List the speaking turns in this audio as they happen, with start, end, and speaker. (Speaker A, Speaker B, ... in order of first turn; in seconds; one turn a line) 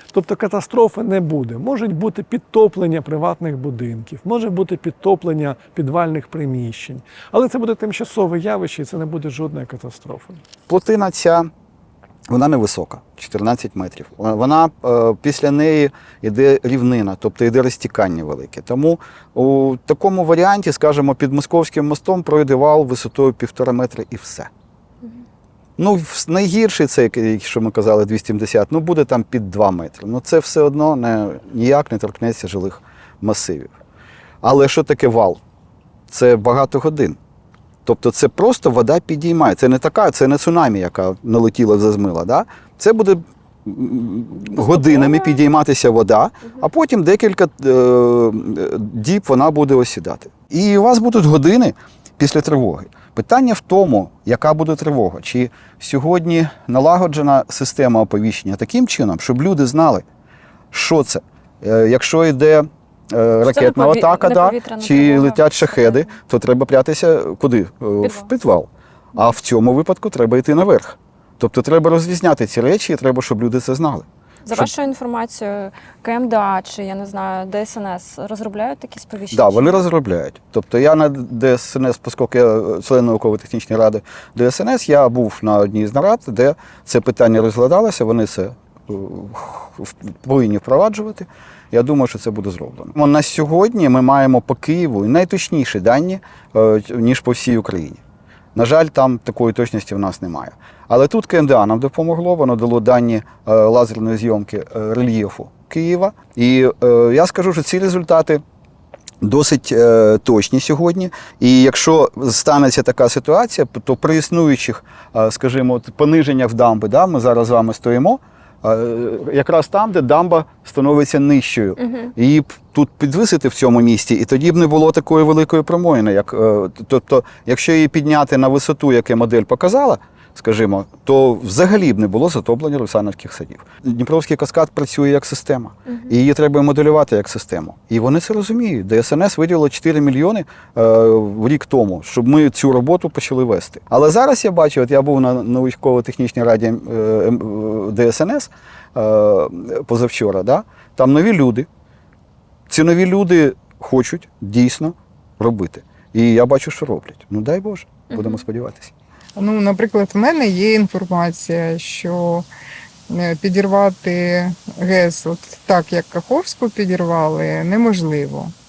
Speaker A: 0.1-10.4
Speaker B: 10.7-11.5
Speaker B: 12.3-24.5
Speaker B: 25.8-33.7
Speaker B: 34.4-35.4
Speaker B: 36.1-37.2
Speaker B: 37.9-60.0
Speaker C: 44.5-45.4
Speaker B: 60.7-74.7
Speaker C: 63.4-66.2
Speaker C: 68.0-68.3
Speaker C: 74.5-79.8
Speaker B: 79.3-98.0
Speaker B: 98.5-108.4
Speaker B: 109.2-151.7
Speaker C: 121.8-122.1
Speaker C: 135.9-136.1
Speaker B: 152.7-158.9
Speaker C: 158.1-158.4
Speaker D: 159.4-162.5
Speaker D: 163.1-168.5